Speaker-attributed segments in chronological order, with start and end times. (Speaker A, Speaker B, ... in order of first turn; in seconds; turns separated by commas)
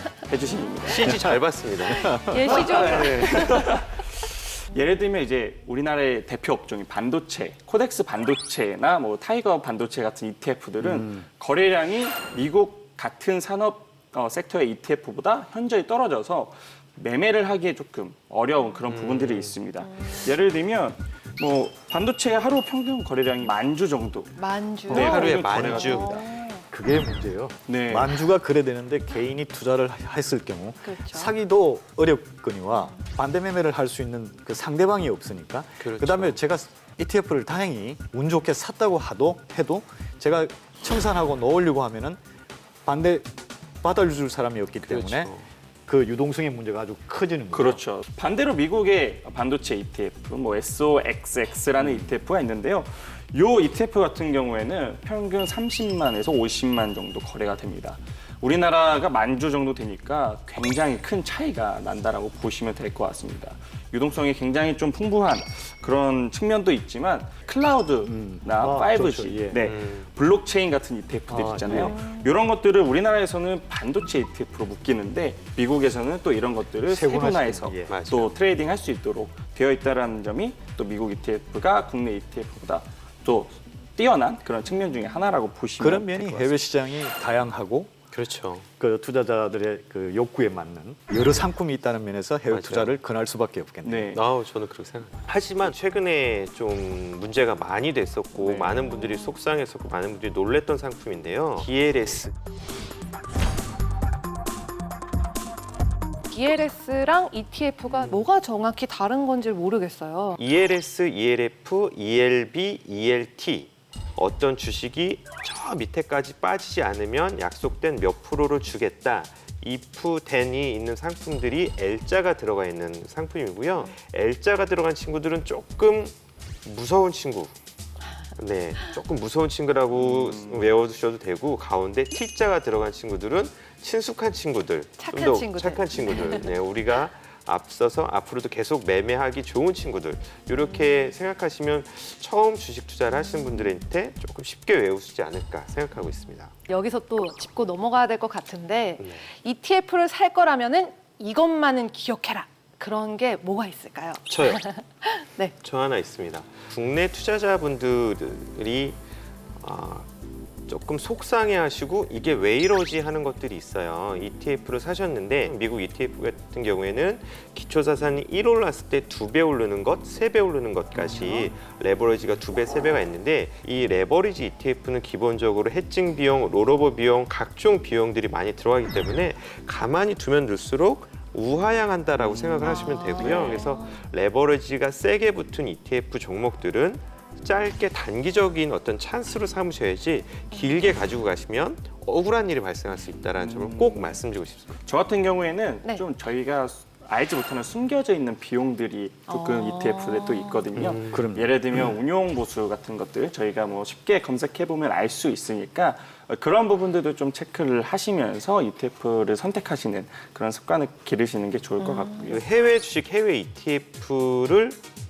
Speaker A: 0.2-1.1, Speaker B: 0.8-2.9, Speaker C: 1.1-1.4, Speaker C: 1.9-2.4, Speaker D: 2.0-3.7, Speaker A: 2.3-26.3, Speaker C: 10.8-11.2, Speaker B: 18.9-19.6, Speaker D: 19.8-20.3, Speaker D: 24.4-26.6, Speaker C: 24.9-25.7, Speaker B: 25.0-26.2, Speaker C: 26.7-42.2, Speaker A: 27.6-28.3, Speaker D: 30.8-31.3, Speaker D: 32.7-33.0, Speaker B: 35.8-36.4, Speaker C: 42.8-43.3, Speaker C: 43.8-45.3, Speaker B: 44.8-45.5, Speaker C: 45.9-47.8, Speaker A: 47.5-86.5, Speaker C: 68.0-69.6, Speaker B: 69.6-70.1, Speaker C: 71.3-72.0, Speaker D: 71.8-72.2, Speaker C: 76.9-77.9, Speaker B: 77.9-78.3, Speaker C: 85.8-88.0, Speaker B: 88.1-88.7, Speaker C: 88.8-94.1, Speaker B: 92.5-93.0, Speaker A: 93.8-94.2, Speaker B: 94.1-102.3, Speaker A: 98.3-98.8, Speaker D: 98.9-99.3, Speaker D: 106.3-110.4, Speaker B: 110.3-127.5, Speaker B: 128.4-146.5, Speaker A: 129.9-130.8, Speaker D: 135.0-136.5, Speaker D: 140.7-141.0, Speaker D: 146.7-155.5, Speaker B: 149.0-149.3, Speaker B: 154.2-154.6, Speaker B: 155.6-159.0, Speaker B: 159.6-160.1, Speaker B: 160.7-194.8, Speaker D: 182.6-184.0, Speaker A: 183.0-183.6, Speaker A: 193.3-194.2, Speaker A: 194.8-212.4, Speaker D: 199.3-200.7, Speaker B: 200.8-201.2, Speaker C: 201.1-201.5, Speaker D: 211.8-212.3, Speaker B: 212.3-214.8